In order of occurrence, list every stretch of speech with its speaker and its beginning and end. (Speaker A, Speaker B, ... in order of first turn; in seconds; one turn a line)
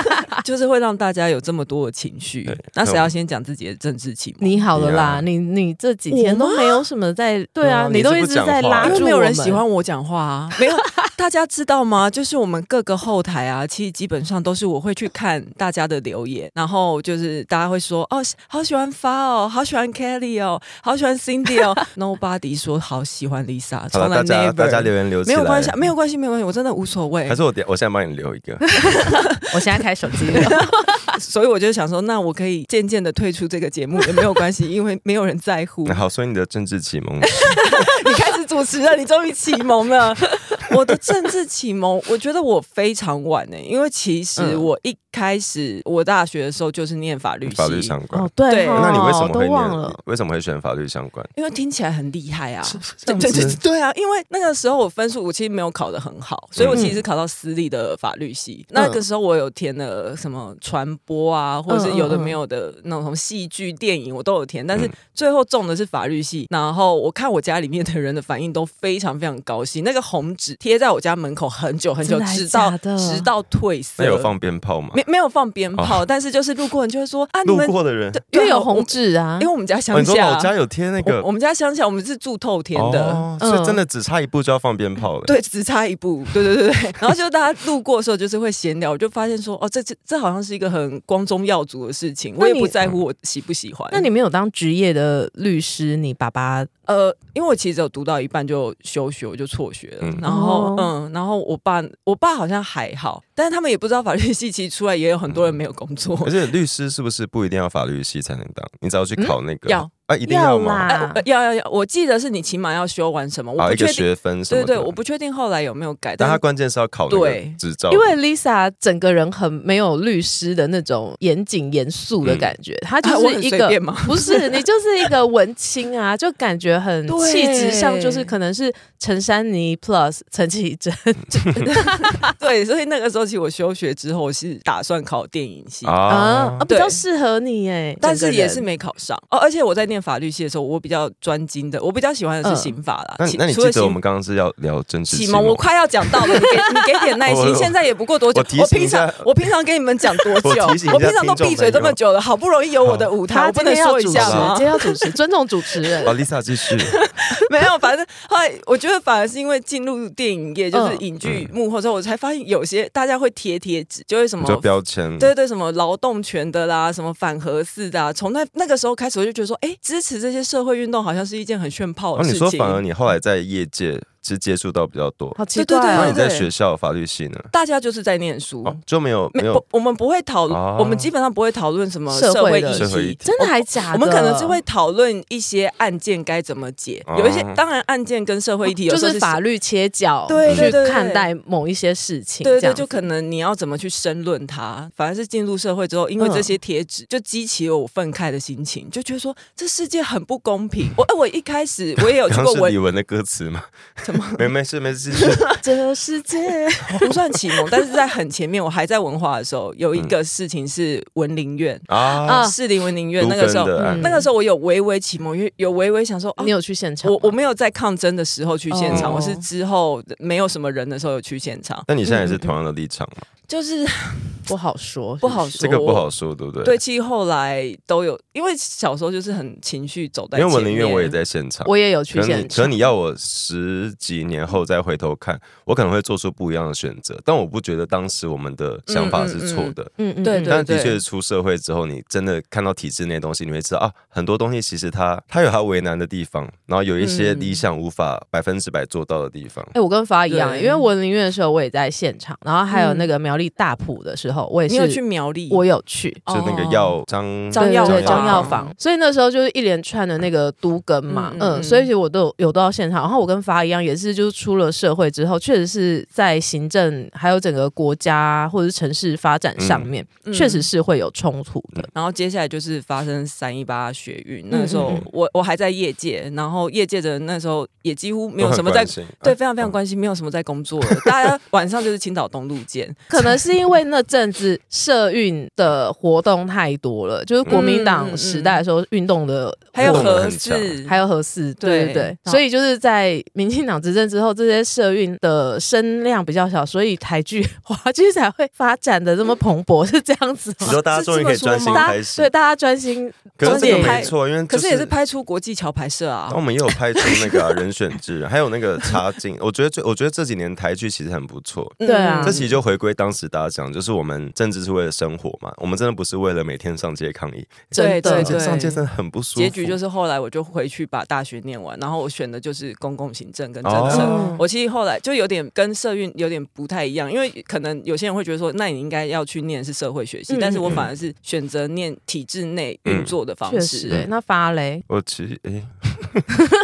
Speaker A: 0.3-4.7
Speaker B: 2.5-3.1
Speaker C: 4.4-9.6
Speaker B: 4.7-5.3
Speaker A: 6.1-6.8
Speaker B: 7.6-9.0
Speaker A: 8.8-27.4
Speaker B: 23.9-25.8
Speaker B: 27.3-28.6
Speaker A: 29.0-29.4
Speaker C: 29.5-31.0
Speaker A: 30.4-36.0
Speaker B: 35.9-37.5
Speaker A: 37.3-48.0
Speaker C: 44.4-44.7
Speaker B: 47.5-51.3
Speaker C: 48.1-50.0
Speaker A: 48.5-49.0
Speaker A: 51.4-74.3
Speaker B: 52.6-53.6
Speaker B: 56.6-56.9
Speaker C: 56.7-57.0
Speaker C: 61.7-62.4
Speaker C: 72.0-73.3
Speaker B: 74.0-75.0
Speaker A: 74.9-83.3
Speaker B: 77.5-78.2
Speaker C: 78.3-79.5
Speaker B: 79.9-81.3
Speaker B: 82.7-85.3
Speaker C: 83.4-83.8
Speaker A: 85.2-94.1
Speaker C: 92.4-92.8
Speaker C: 93.9-96.7
Speaker A: 96.9-106.3
Speaker B: 100.0-100.3
Speaker C: 100.2-100.9
Speaker B: 106.2-111.0
Speaker A: 109.7-109.9
Speaker C: 110.2-111.2
Speaker A: 110.9-116.4
Speaker B: 113.6-115.0
Speaker B: 116.2-118.2
Speaker A: 117.1-117.6
Speaker C: 117.9-132.2
Speaker B: 122.2-122.5
Speaker A: 123.0-124.6
Speaker A: 127.1-128.3
Speaker A: 131.7-136.0
Speaker B: 135.8-136.7
Speaker C: 136.1-138.7
Speaker A: 136.7-137.0
Speaker A: 138.0-144.0
Speaker C: 142.4-142.8
Speaker B: 143.2-145.7
Speaker A: 145.1-155.2
Speaker B: 147.2-149.3
Speaker B: 150.4-152.0
Speaker B: 152.8-153.1
Speaker C: 153.3-156.2
Speaker B: 154.1-154.5
Speaker B: 156.0-157.0
Speaker A: 156.8-172.8
Speaker C: 160.7-161.1
Speaker B: 161.2-161.5
Speaker B: 164.4-165.3
Speaker B: 172.2-175.4
Speaker C: 175.4-176.2
Speaker A: 175.6-176.5
Speaker B: 175.9-177.5
Speaker A: 177.5-178.8
Speaker B: 178.6-179.6
Speaker A: 179.3-189.4
Speaker B: 180.5-181.1
Speaker C: 182.1-184.6
Speaker B: 182.7-183.2
Speaker B: 187.1-187.6
Speaker C: 188.7-193.1
Speaker A: 190.3-191.3
Speaker B: 190.4-190.8
Speaker A: 192.4-202.8
Speaker C: 196.2-196.6
Speaker B: 202.3-205.5
Speaker A: 204.1-204.5
Speaker A: 205.2-205.6
Speaker C: 205.6-207.1
Speaker A: 207.0-222.5
Speaker B: 211.9-212.5
Speaker C: 212.2-212.6
Speaker B: 213.2-214.2
Speaker C: 213.8-214.3
Speaker C: 216.4-217.4
Speaker C: 218.7-219.5
Speaker B: 218.9-219.2
Speaker B: 221.9-223.2
Speaker C: 222.1-222.4
Speaker A: 223.5-224.5
Speaker C: 224.5-225.7
Speaker A: 225.2-226.1
Speaker B: 225.6-226.8
Speaker A: 226.6-231.2
Speaker B: 230.3-239.9
Speaker C: 231.6-232.8
Speaker A: 238.9-241.0
Speaker C: 240.0-240.6
Speaker B: 240.5-249.8
Speaker A: 247.0-247.7
Speaker C: 249.7-256.2
Speaker A: 250.3-250.9
Speaker A: 252.7-253.1
Speaker A: 254.7-255.7
Speaker A: 256.3-257.0
Speaker B: 256.3-258.6
Speaker A: 257.5-258.7
Speaker C: 257.5-271.9
Speaker A: 261.1-261.9
Speaker B: 269.6-269.9
Speaker A: 270.2-270.7
Speaker A: 271.9-283.3
Speaker C: 274.5-275.1
Speaker B: 278.4-279.7
Speaker C: 283.1-290.2
Speaker B: 287.4-287.7
Speaker A: 287.5-288.6
Speaker A: 289.7-291.0
Speaker B: 289.8-290.8
Speaker C: 290.9-300.8
Speaker A: 291.6-292.4
Speaker B: 300.6-302.3
Speaker A: 300.6-301.9
Speaker C: 301.6-304.1
Speaker B: 303.4-304.9
Speaker A: 303.4-307.4
Speaker B: 306.3-319.8
Speaker A: 311.8-312.6
Speaker C: 311.8-312.4
Speaker C: 317.7-318.7
Speaker A: 317.8-318.8
Speaker A: 319.4-334.0
Speaker B: 323.6-324.3
Speaker C: 323.9-324.4
Speaker C: 330.3-330.7
Speaker B: 332.9-333.1
Speaker C: 333.4-334.8
Speaker B: 334.9-336.3